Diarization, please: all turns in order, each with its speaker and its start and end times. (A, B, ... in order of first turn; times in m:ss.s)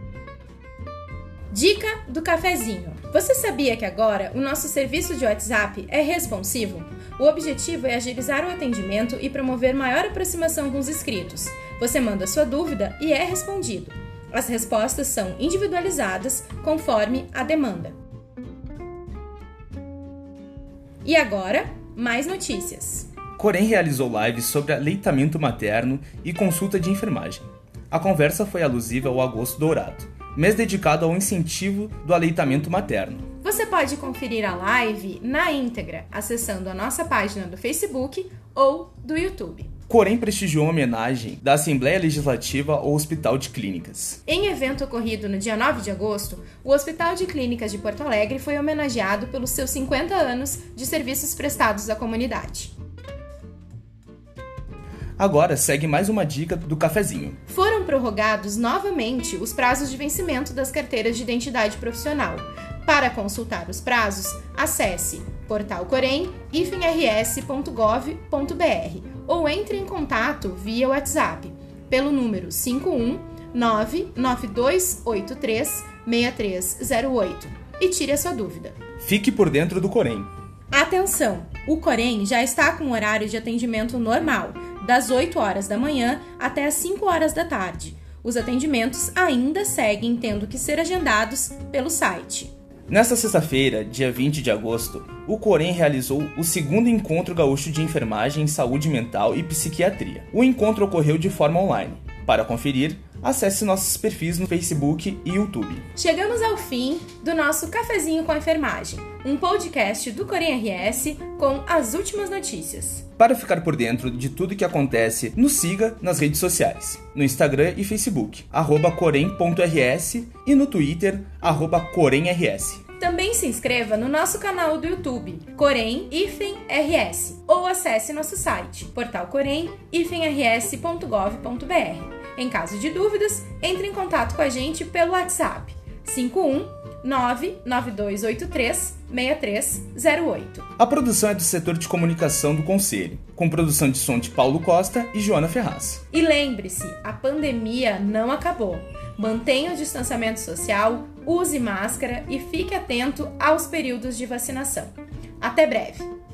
0:01.5-0:17.9 A
0:21.0-0:23.1 A
0:23.4-0:33.2 B
0:33.4-0:39.7 A
0:39.9-0:44.2 B
0:44.2-0:52.7 A
0:55.2-0:57.4 B
0:57.5-1:18.8 A
1:19.0-1:20.3 B
1:20.7-1:32.5 A
1:32.9-1:45.8 B
1:45.9-1:53.0 A
1:53.2-2:02.8 B
2:03.0-2:20.7 A
2:20.8-2:26.0 B
2:26.1-2:36.1 A